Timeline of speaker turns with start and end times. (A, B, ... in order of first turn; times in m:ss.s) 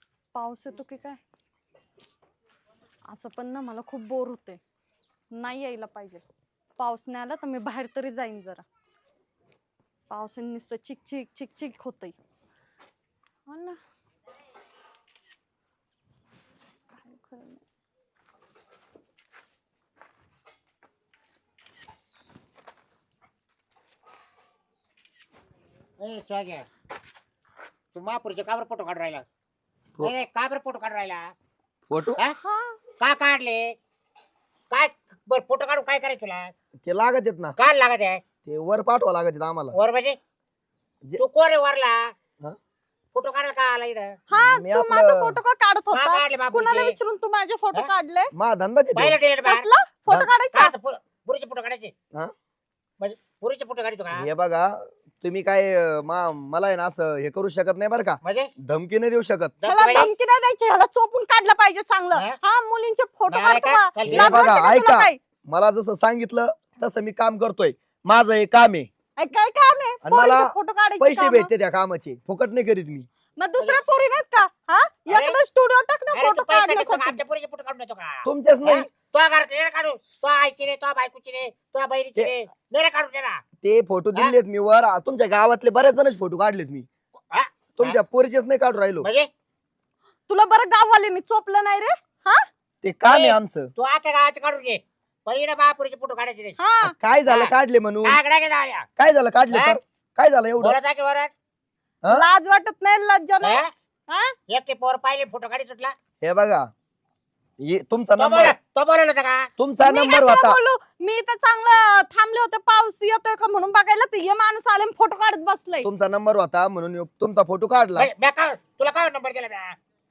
0:00.3-0:01.2 A
0:03.1-0:04.6 A
0:05.3-0:06.2 A
0:06.8-0:08.6 A
0:10.1-0:12.1 A
0:13.5-0:13.8 A
0:17.0-0:17.6 A
0:26.0-0:26.7 B
0:27.9-0:29.2 B
0:30.0-0:31.3 B
0:31.9-0:32.2 C
0:32.4-0:32.8 A
0:33.0-0:33.8 B
0:34.7-0:36.5 B
0:36.8-0:37.6 C
0:37.6-0:38.2 B
0:38.4-0:39.8 C
0:39.7-0:40.2 B
0:41.2-0:42.1 B
0:43.1-0:44.2 B
0:44.3-0:48.3 A
0:44.3-0:45.4 C
0:45.9-0:47.0 B
0:48.3-0:49.2 C
0:48.9-0:49.7 B
0:49.4-0:50.7 A
0:50.5-0:51.9 B
0:53.0-0:54.2 B
0:54.1-0:59.6 C
0:58.2-0:58.5 B
0:59.6-1:00.1 B
0:59.6-1:05.2 A
1:02.1-1:02.4 B
1:03.3-1:04.5 B
1:04.0-1:08.9 C
1:09.2-1:11.5 A
1:10.0-1:13.1 C
1:13.4-1:17.2 A
1:13.6-1:13.8 B
1:15.1-1:15.4 B
1:16.1-1:23.4 B
1:18.2-1:18.9 C
1:23.6-1:26.9 C
1:27.3-1:28.0 B
1:27.8-1:29.1 C
1:29.0-1:29.3 B
1:30.3-1:32.4 A
1:32.8-1:33.7 C
1:33.0-1:36.6 B
1:36.6-1:36.9 A
1:36.8-1:38.2 C
1:37.2-1:37.5 B
1:38.0-1:38.8 B
1:39.0-1:40.8 C
1:39.5-1:39.8 B
1:40.6-1:41.3 B
1:42.1-1:44.3 A
1:43.4-1:43.7 B
1:44.5-1:45.9 B
1:46.2-1:46.6 C
1:47.6-1:48.6 C
1:48.2-1:49.5 B
1:49.6-1:50.6 C
1:49.8-1:55.9 A
1:55.8-1:58.1 C
1:57.9-1:59.8 B